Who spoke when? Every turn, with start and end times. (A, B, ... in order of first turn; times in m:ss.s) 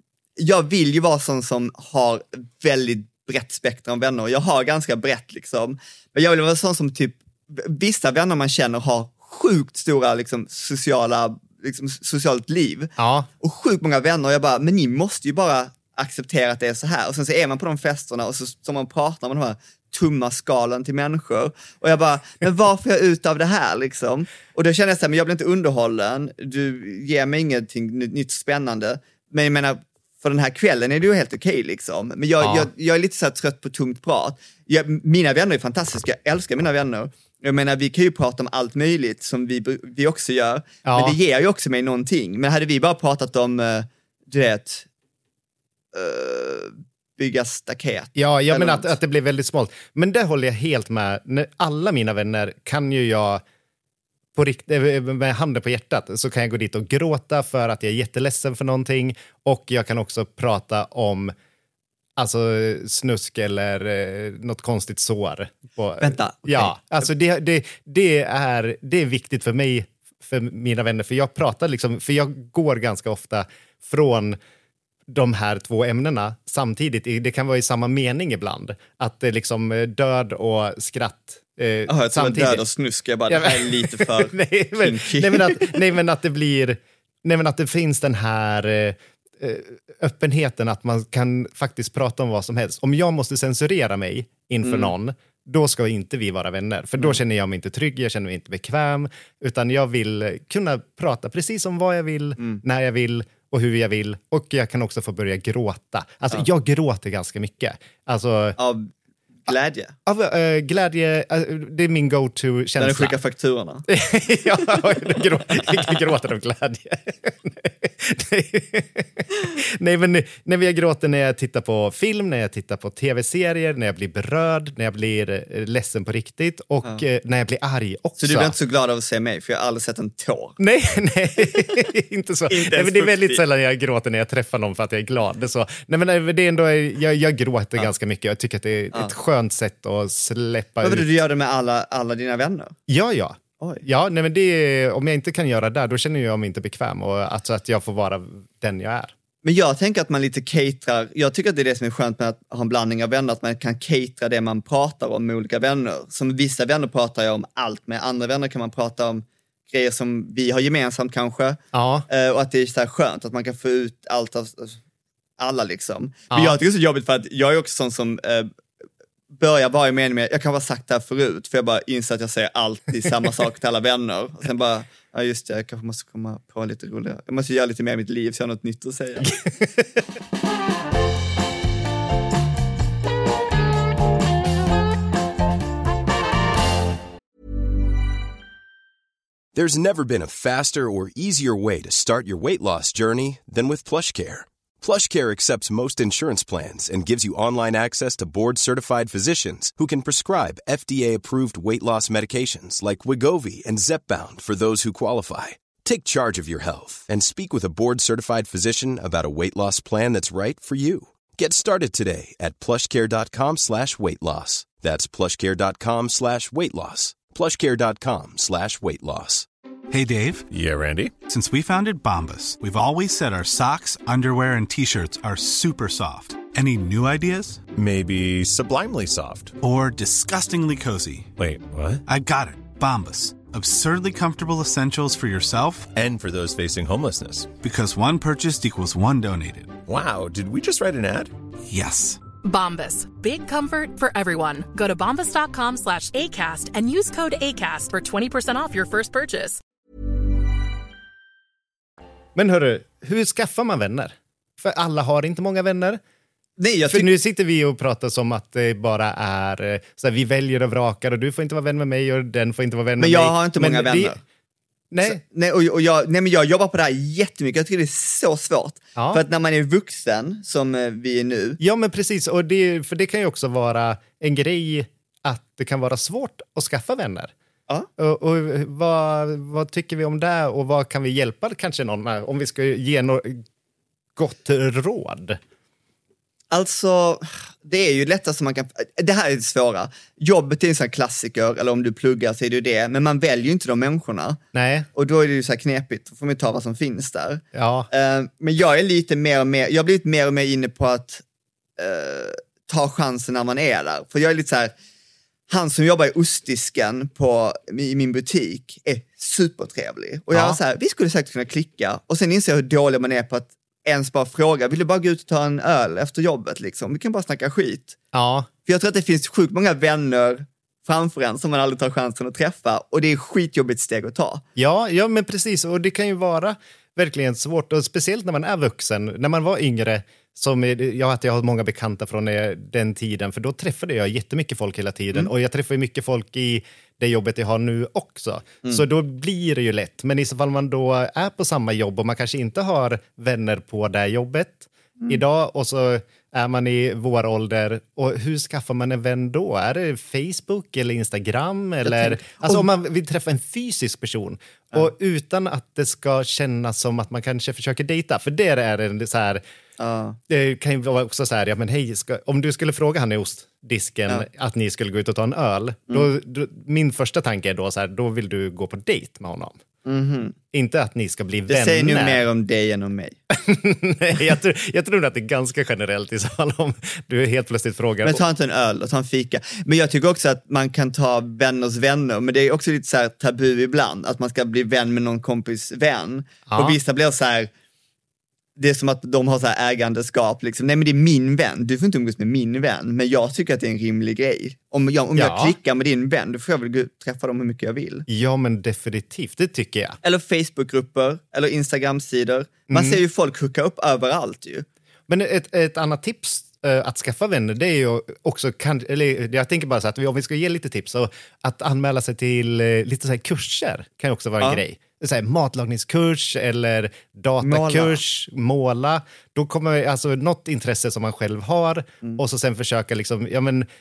0:00.4-0:44.9 A
0:13.0-0:13.3 B
0:32.4-0:32.7 B
0:40.8-0:41.2 B
0:45.9-0:49.0 A
0:48.2-0:53.4 B
0:54.4-1:01.3 B
1:02.2-1:14.4 B
1:06.0-1:07.1 A
1:15.1-1:22.6 B
1:21.9-1:25.8 A
1:23.3-1:48.6 B
1:34.6-1:34.9 A
1:48.6-1:48.9 A
1:49.4-1:50.0 A
1:50.1-1:53.2 B
1:52.8-1:53.9 A
1:53.9-2:08.6 B
1:54.6-1:55.9 A
2:08.2-2:10.6 A
2:10.6-2:21.1 B
2:12.5-2:13.4 A
2:20.8-2:22.8 A
2:22.9-2:29.1 B
2:23.6-2:23.8 A
2:29.4-2:44.8 A
2:41.7-2:42.1 B
2:45.4-2:48.5 A
2:46.3-2:46.6 B
2:49.3-2:59.3 A
2:59.2-2:59.9 B
3:09.5-3:39.5 C
3:39.9-3:40.5 D
3:40.5-3:41.1 E
3:41.3-3:47.7 D
3:47.7-3:49.5 E
3:49.6-3:51.3 D
3:51.4-3:52.0 E
3:52.1-3:55.9 D
3:55.9-3:57.5 E
3:57.6-3:59.8 D
3:59.9-4:01.3 E
4:01.7-4:02.3 D
4:02.4-4:09.6 F
4:12.4-4:16.0 B
4:16.6-4:17.1 A
4:16.9-4:24.2 B
4:23.0-4:24.2 A
4:24.9-4:25.2 B
4:25.0-4:31.6 A
4:29.0-4:29.2 B
4:31.6-4:37.3 B
4:38.0-4:43.4 B
4:44.2-4:45.4 B
4:46.5-4:54.4 A
4:54.5-4:54.9 B
4:55.0-5:01.2 A
4:57.5-4:57.9 B
5:01.8-5:04.7 A
5:05.5-5:18.0 A
5:10.3-5:10.6 B
5:18.1-5:18.5 B
5:18.7-5:24.4 A
5:24.6-5:59.4 B
5:51.8-5:52.7 A
5:59.8-6:00.2 A
6:00.3-6:09.6 B
6:09.8-6:10.4 A
6:10.5-6:12.2 B
6:11.5-6:13.2 A
6:13.3-6:18.2 B
6:18.0-6:27.5 A
6:26.5-6:26.8 B
6:28.6-6:38.1 A
6:35.2-6:35.6 B
6:38.1-6:40.0 B
6:40.0-6:44.7 A
6:42.7-6:43.0 B
6:45.1-7:03.7 B
6:57.4-6:58.0 A